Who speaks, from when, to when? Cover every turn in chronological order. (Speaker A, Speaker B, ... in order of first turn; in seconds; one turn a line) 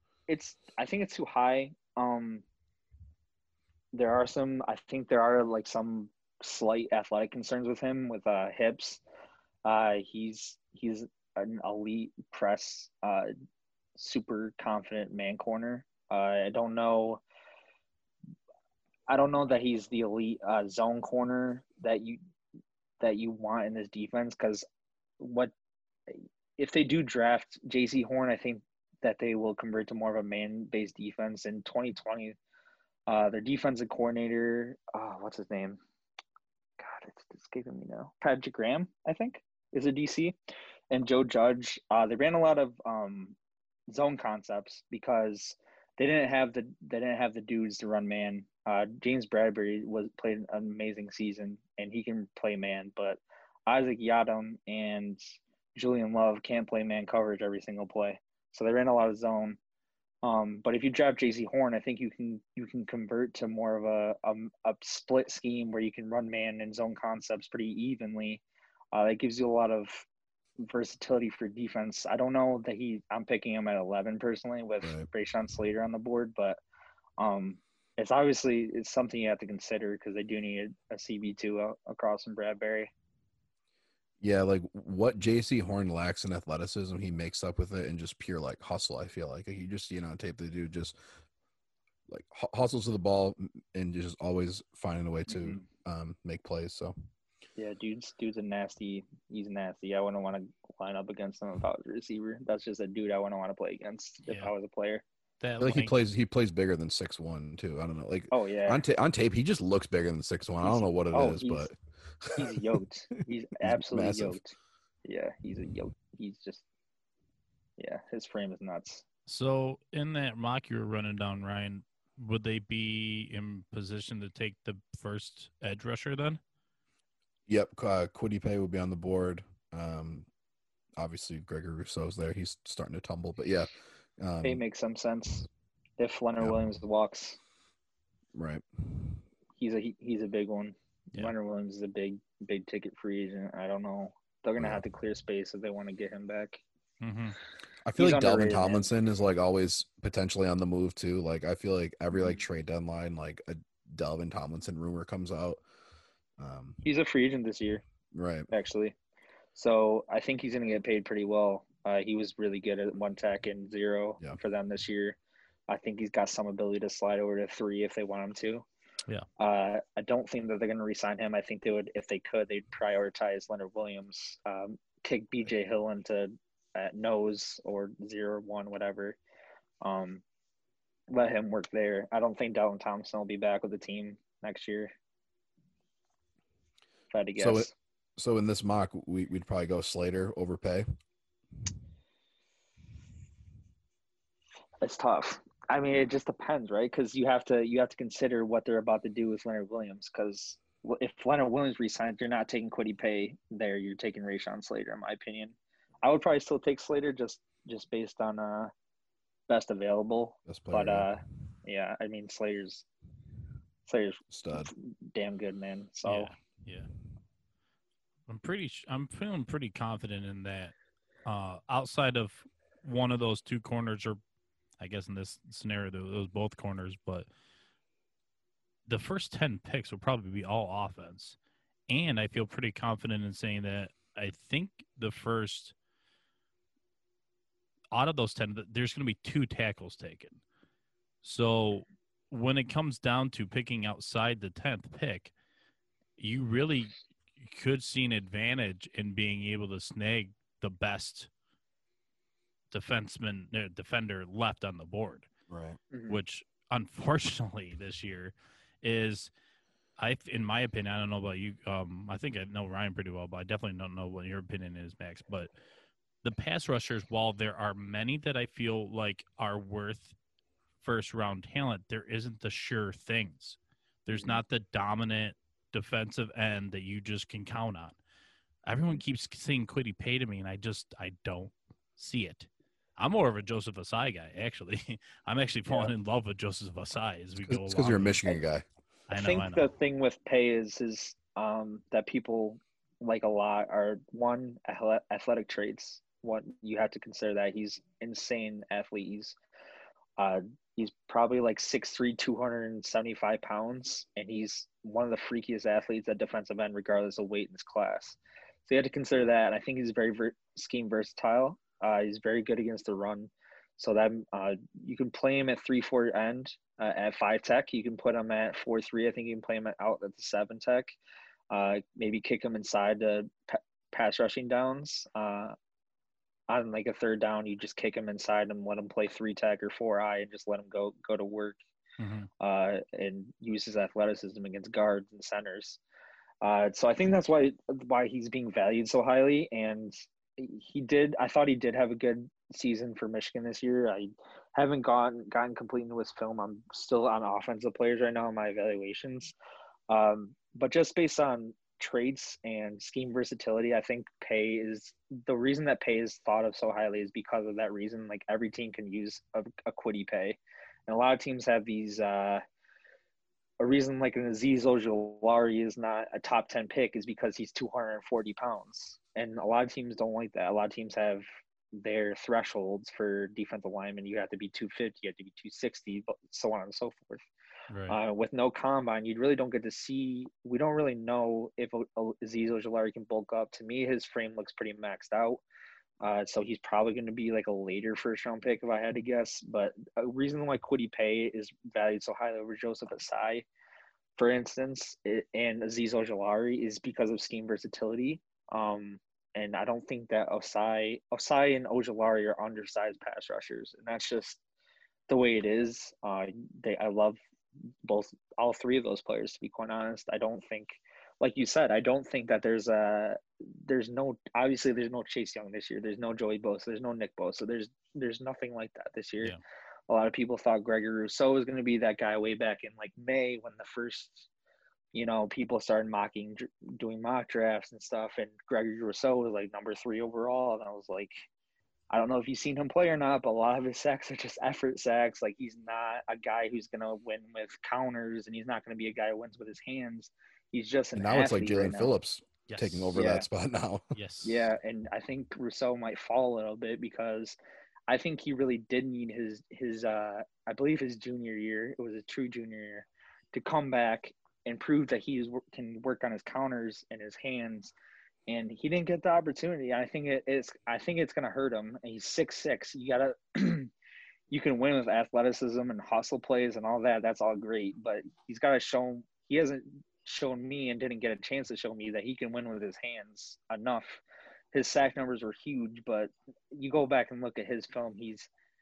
Speaker A: 0.3-2.4
Speaker A: 3.9-9.0
Speaker A: 9.6-13.3
Speaker A: 13.9-17.2
Speaker A: 19.1-22.2
Speaker A: 23.0-24.6
Speaker A: 25.2-25.5
Speaker A: 26.1-32.4
Speaker A: 33.1-35.8
Speaker A: 36.8-40.4
Speaker A: 40.9-43.4
Speaker A: 43.9-55.2
Speaker A: 55.7-59.6
Speaker A: 60.2-70.0
Speaker A: 70.6-76.6
Speaker A: 77.2-82.9
Speaker B: 84.2-91.0
Speaker B: 92.1-96.9
Speaker A: 95.3-95.6
Speaker A: 97.6-105.0
Speaker C: 105.4-106.0
Speaker B: 105.6-112.4
Speaker A: 108.3-108.8
Speaker A: 110.6-111.7
Speaker A: 112.3-116.6
Speaker B: 113.7-114.4
Speaker A: 117.8-119.0
Speaker C: 119.3-126.4
Speaker B: 127.5-130.3
Speaker B: 131.0-134.6
Speaker A: 134.4-135.5
Speaker A: 136.0-137.4
Speaker B: 138.3-139.2
Speaker A: 139.6-146.6
Speaker B: 144.6-144.8
Speaker C: 147.0-147.4
Speaker B: 147.8-155.6
Speaker A: 147.9-148.9
Speaker A: 152.1-152.4
Speaker B: 156.4-156.8
Speaker A: 156.8-157.8
Speaker B: 158.1-158.5
Speaker A: 158.5-158.9
Speaker A: 159.5-165.2
Speaker A: 165.7-168.7
Speaker A: 169.4-179.2
Speaker A: 179.8-180.2
Speaker A: 181.1-184.9
Speaker A: 187.1-187.7
Speaker B: 187.4-190.8
Speaker A: 194.8-208.7
Speaker A: 209.5-212.8
Speaker B: 210.4-211.1
Speaker A: 213.8-216.3
Speaker B: 214.3-214.7
Speaker C: 216.0-216.9
Speaker C: 218.3-224.2
Speaker C: 224.8-227.3
Speaker C: 228.9-231.3
Speaker C: 231.9-235.7
Speaker C: 237.9-240.4
Speaker C: 241.2-245.3
Speaker C: 246.2-251.3
Speaker C: 252.7-255.3
Speaker B: 255.5-255.8
Speaker A: 255.9-256.2
Speaker C: 256.1-259.3
Speaker C: 260.0-265.5
Speaker C: 266.2-270.1
Speaker C: 270.8-278.0
Speaker C: 278.6-288.2
Speaker B: 287.4-288.6
Speaker C: 289.1-289.7
Speaker A: 289.1-299.3
Speaker A: 300.2-320.9
Speaker A: 321.5-325.6
Speaker A: 326.5-331.6
Speaker C: 332.0-332.3
Speaker A: 332.4-335.8
Speaker A: 336.4-349.3
Speaker A: 349.9-362.4
Speaker A: 363.6-377.2
Speaker C: 377.7-378.0
Speaker A: 377.9-385.4
Speaker A: 386.0-393.4
Speaker A: 394.1-404.4
Speaker A: 405.1-407.2
Speaker A: 407.8-419.4
Speaker A: 419.9-424.3
Speaker A: 424.9-431.2
Speaker A: 431.9-441.9
Speaker B: 440.9-443.9
Speaker C: 442.5-442.9
Speaker A: 442.9-443.2
Speaker C: 443.9-444.5
Speaker A: 444.2-447.4
Speaker A: 447.9-457.7
Speaker A: 458.3-463.7
Speaker A: 464.3-474.0
Speaker A: 474.5-478.3